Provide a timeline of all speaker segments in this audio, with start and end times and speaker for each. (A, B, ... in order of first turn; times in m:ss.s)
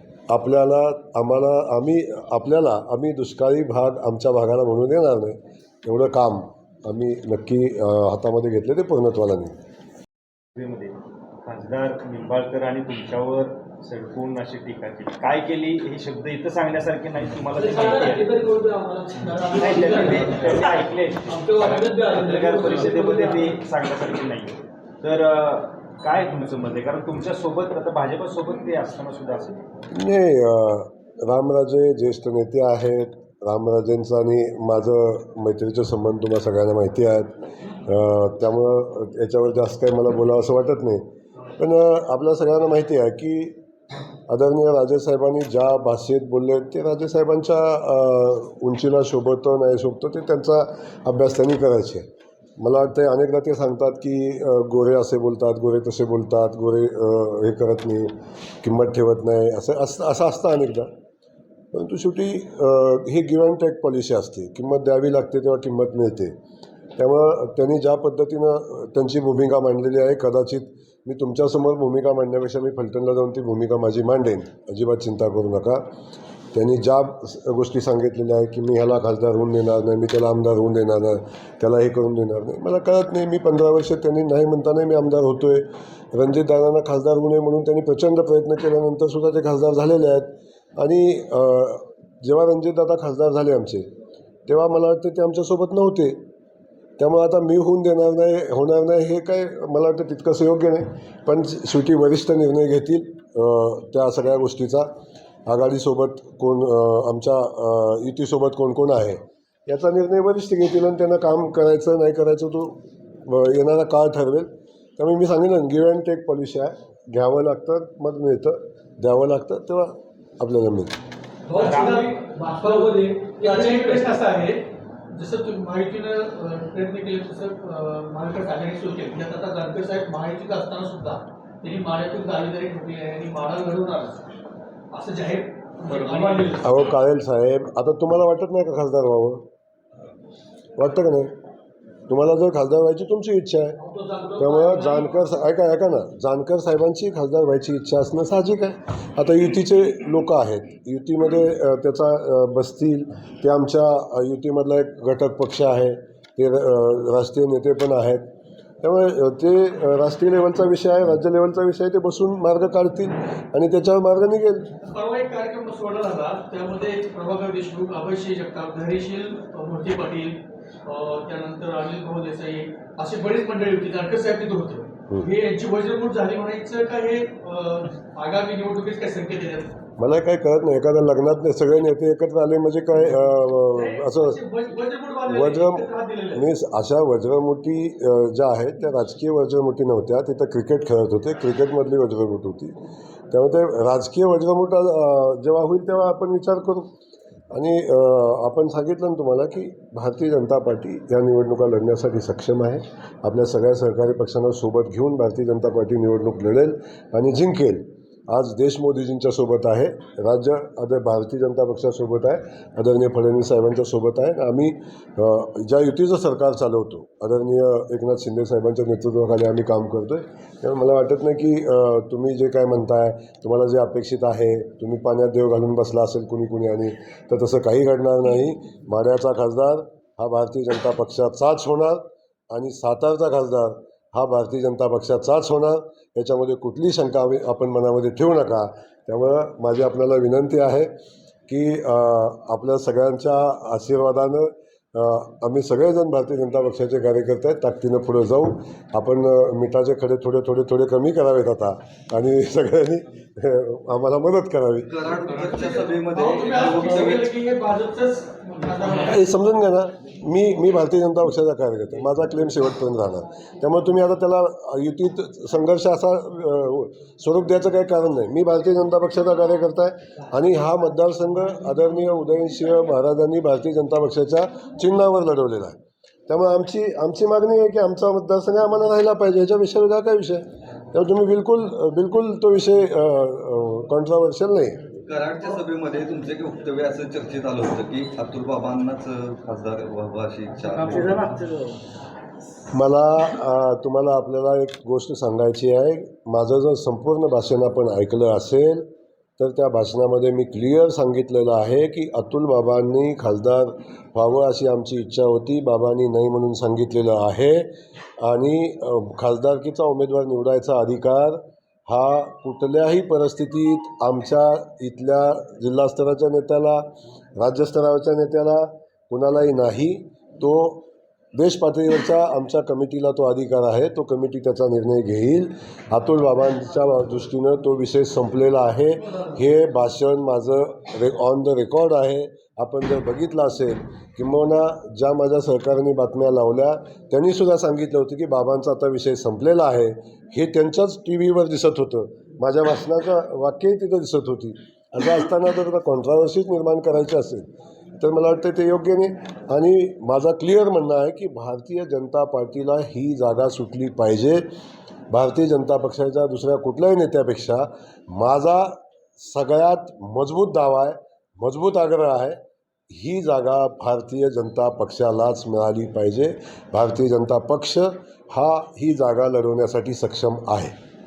0:00.3-0:09.6 A
0:10.6-0:18.4 B
0:17.6-0:23.6 C
0:19.6-0:29.6 B
0:29.9-0:41.0 A
0:41.6-0:43.6 A
0:44.3-0:52.0 A
0:52.6-1:00.9 A
1:01.7-1:06.4 A
1:07.0-1:15.8 A
1:16.5-1:33.9 A
1:34.5-1:36.2 A
1:37.0-1:44.9 A
1:45.5-2:01.0 A
2:01.5-2:14.3 C
2:01.6-2:02.0 B
2:14.9-2:16.7 C
2:16.6-2:19.5 A
2:20.8-2:21.3 A
2:22.1-2:23.8 A
2:23.8-2:25.2 C
2:24.4-2:38.3 A
2:38.8-2:44.7 A
2:44.8-2:59.8 C
3:00.0-3:04.4 A
3:03.7-3:06.5 C
3:05.3-3:12.8 A
3:13.3-3:16.9 A
3:17.5-4:00.9 A
4:01.5-4:14.9 A
4:14.8-4:17.3 D
4:15.1-4:19.3 C
4:19.0-4:44.8 A
4:45.1-4:51.3 D
4:52.7-4:58.9 A
4:59.4-5:54.5 A
5:55.1-6:10.7 A